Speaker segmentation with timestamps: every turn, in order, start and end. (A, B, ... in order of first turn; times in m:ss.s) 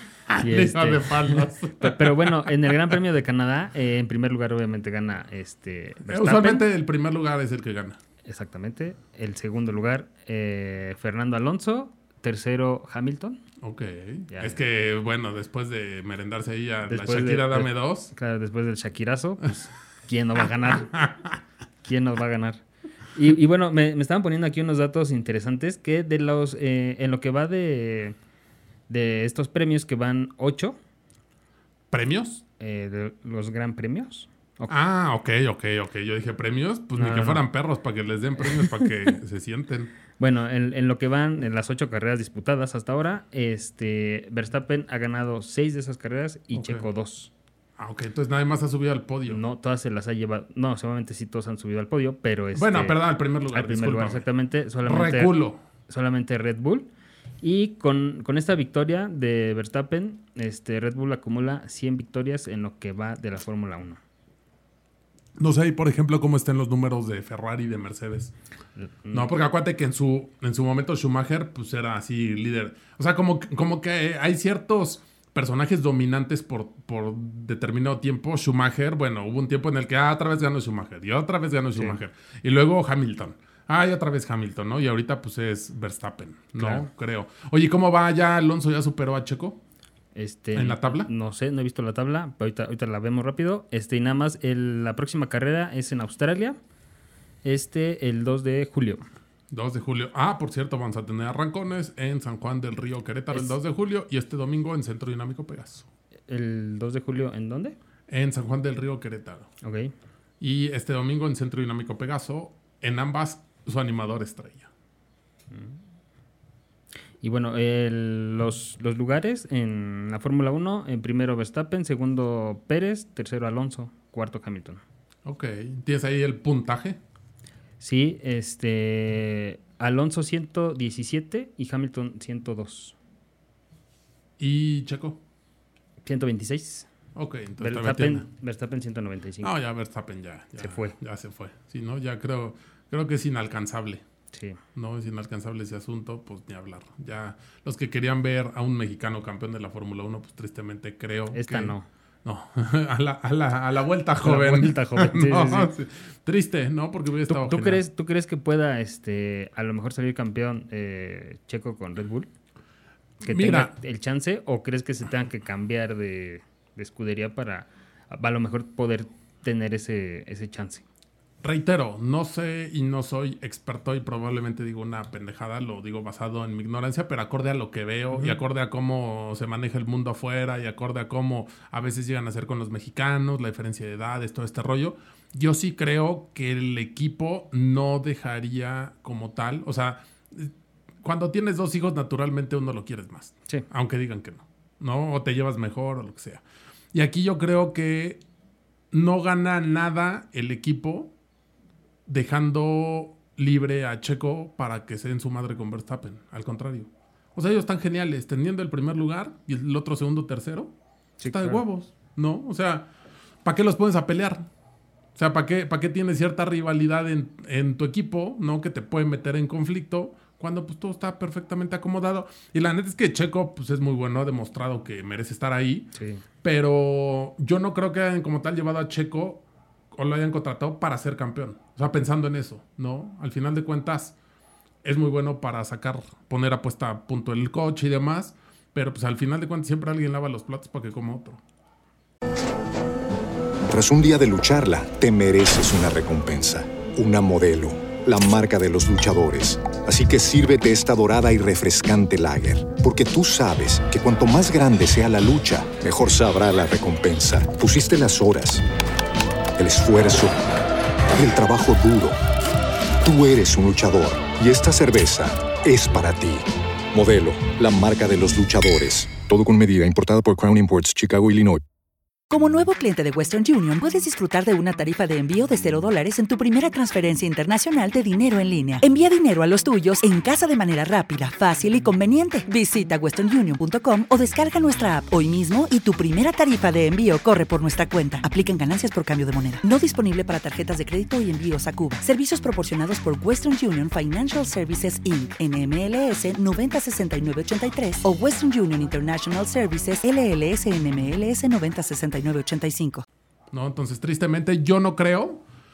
0:00.3-0:02.5 A
0:00.4-0:06.7 B
0:06.1-0:08.0 A
0:08.2-0:13.4 B
0:13.6-0:18.1 A
0:14.3-0:14.6 B
0:16.9-0:21.1 B
0:21.8-0:28.2 B
0:28.9-0:30.8 B
0:31.9-0:32.4 A
0:32.6-0:34.8 B
0:34.7-0:39.9 A
0:37.0-0:37.4 B
0:38.4-0:38.9 B
0:40.2-0:47.3 B
0:46.5-0:46.8 A
0:47.8-0:49.4 A
0:49.3-0:53.0 B
0:52.5-0:54.2 A
0:53.5-0:56.9 B
0:54.8-0:55.6 A
0:57.4-1:04.0 B
1:05.4-1:08.3 A
1:08.8-1:09.3 B
1:09.1-1:29.6 A
1:26.6-1:26.9 B
1:30.1-1:36.6 B
1:30.5-1:31.1 A
1:37.4-1:39.0 B
1:39.5-1:45.9 A
1:46.3-1:47.8 B
1:48.1-1:49.5 A
1:49.6-1:49.9 B
1:50.4-1:54.7 A
1:55.5-1:55.8 B
1:57.2-2:04.8 B
2:05.2-2:07.0 A
2:07.8-2:13.0 B
2:14.4-2:15.2 A
2:16.0-2:16.9 B
2:17.2-2:18.3 A
2:17.6-2:19.5 B
2:19.4-2:24.0 A
2:20.6-2:20.9 B
2:24.3-2:24.6 B
2:24.8-2:37.8 A
2:31.3-2:31.9 B
2:34.2-2:35.7 B
2:37.3-2:42.3 B
2:43.2-2:50.8 B
2:43.2-2:43.7 A
2:51.4-3:10.5 A
2:58.1-2:58.4 B
3:11.0-3:16.4 A
3:16.9-3:18.2 A
3:18.9-3:21.1 A
3:22.1-3:30.7 A
3:31.2-3:31.6 B
3:31.3-3:32.9 A
3:33.4-3:34.4 A
3:35.2-3:54.1 A
3:45.9-3:46.2 B
3:54.8-4:01.4 A
4:03.7-4:18.6 C
4:19.6-4:20.4 C
4:21.1-4:22.2 C
4:23.0-4:31.6 C
4:32.3-5:03.0 D
5:03.5-5:05.4 A